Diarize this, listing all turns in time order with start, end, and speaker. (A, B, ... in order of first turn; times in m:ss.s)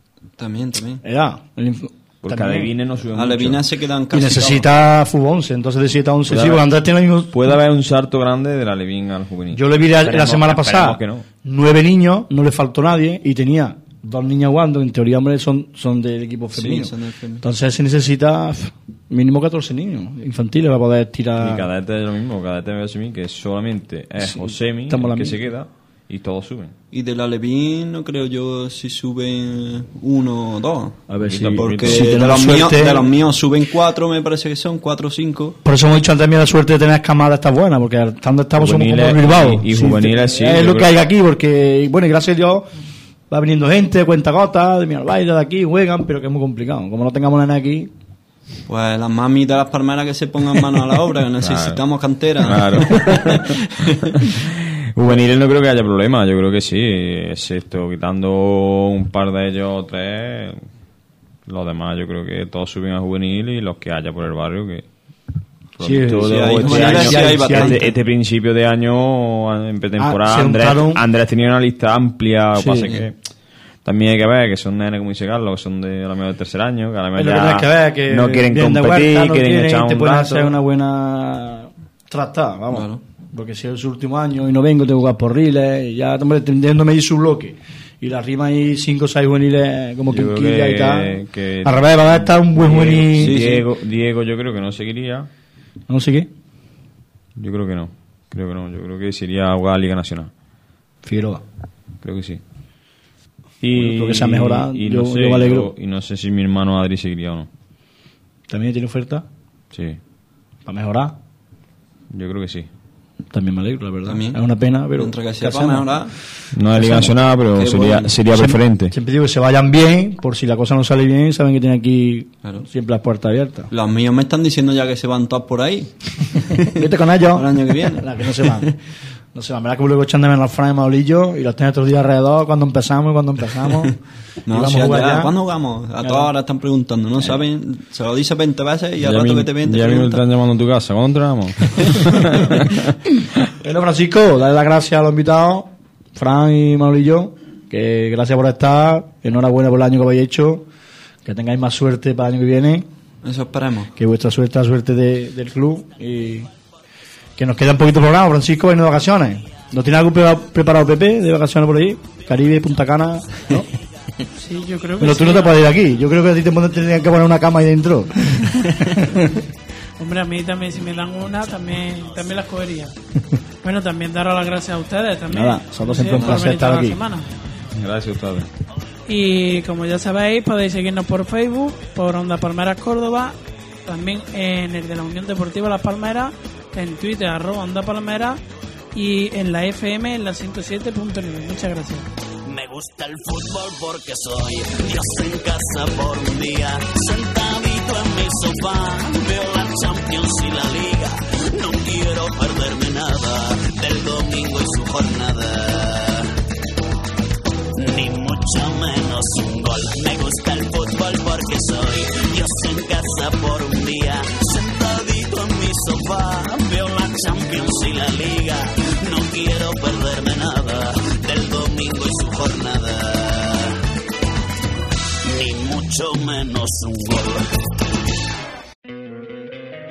0:00.4-0:01.0 A
0:01.0-0:02.7 B
0:02.2-0:03.6 C
0:03.1-0:04.7 A
0:04.1-0:07.3 B
0:06.3-0:06.6 C
0:07.3-0:11.3 C
0:09.5-0:21.7 B
0:16.5-0:17.4 A
0:21.4-0:26.7 C
0:24.2-0:25.4 B
0:26.9-0:35.6 A
0:31.1-0:33.1 B
0:31.2-0:32.2 C
0:35.6-0:42.7 B
0:38.6-0:41.0 C
0:43.3-0:47.9 B
0:48.7-0:54.1 A
0:51.4-0:51.8 C
0:52.4-0:53.6 C
0:54.2-1:00.6 C
1:01.5-1:04.9 C
1:05.8-1:13.2 C
1:05.8-1:07.8 B
1:06.2-1:07.9 A
1:10.0-1:11.0 B
1:12.6-1:12.9 B
1:13.8-1:20.5 C
1:17.2-1:33.4 B
1:22.7-1:23.0 A
1:30.1-1:35.3 C
1:33.2-1:33.6 A
1:35.9-1:36.3 B
1:37.4-1:40.3 C
1:41.0-1:41.4 B
1:42.0-1:42.4 C
1:43.6-1:47.5 C
1:43.8-1:45.7 B
1:48.5-1:49.3 B
1:49.7-1:50.0 C
1:50.7-1:51.2 B
1:52.1-1:52.7 C
1:53.3-1:55.9 B
1:54.1-1:54.4 A
1:55.0-1:56.1 A
1:56.5-1:58.9 C
1:56.7-1:57.2 B
1:57.6-1:58.2 A
1:58.3-2:03.7 B
2:03.7-2:06.8 A
2:06.5-2:08.8 B
2:07.3-2:08.8 A
2:09.3-2:14.0 B
2:14.5-2:20.2 A
2:14.5-2:15.3 B
2:16.0-2:16.3 B
2:19.0-2:22.9 C
2:23.6-2:30.6 B
2:31.2-2:32.9 B
2:33.2-2:33.9 A
2:34.0-2:36.5 B
2:37.4-2:43.7 B
2:44.4-2:45.7 D
2:45.0-2:49.4 B
2:50.0-2:52.9 D
2:53.6-2:57.3 D
2:55.3-2:57.0 B
2:57.7-2:58.5 C
2:59.1-3:03.4 D
3:03.9-3:08.4 D
3:08.9-3:12.1 D
3:12.5-3:26.3 E
3:27.8-3:43.8 E
3:45.2-3:47.4 E